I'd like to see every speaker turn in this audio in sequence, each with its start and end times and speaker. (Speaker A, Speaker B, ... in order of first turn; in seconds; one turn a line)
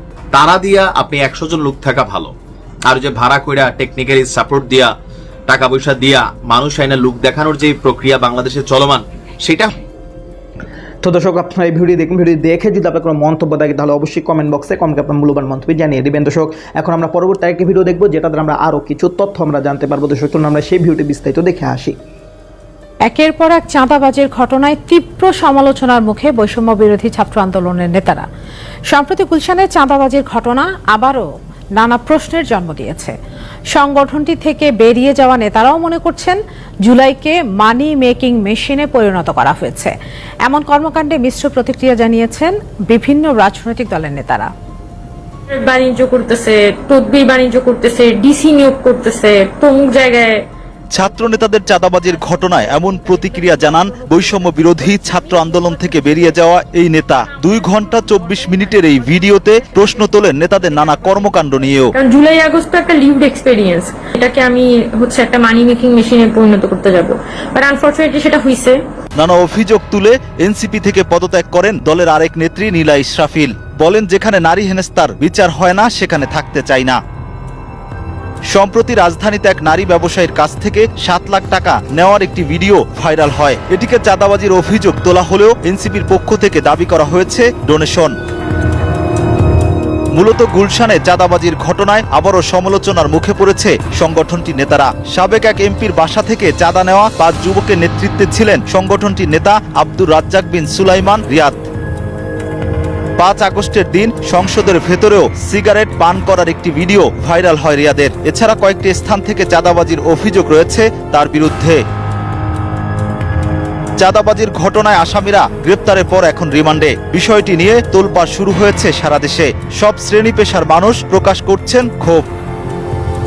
Speaker A: 0.3-2.3
Speaker A: 2.9-4.9
Speaker A: 5.5-9.7
Speaker B: 11.0-22.0
Speaker C: 23.1-28.3
Speaker C: 28.9-33.1
Speaker C: 33.7-39.9
Speaker C: 40.5-44.5
Speaker D: 45.5-50.4
Speaker E: 50.9-61.9
Speaker D: 62.0-68.8
Speaker E: 69.2-77.0
Speaker E: 78.5-88.1
Speaker E: 90.2-101.6
Speaker E: 103.2-111.8
Speaker E: 114.0-122.2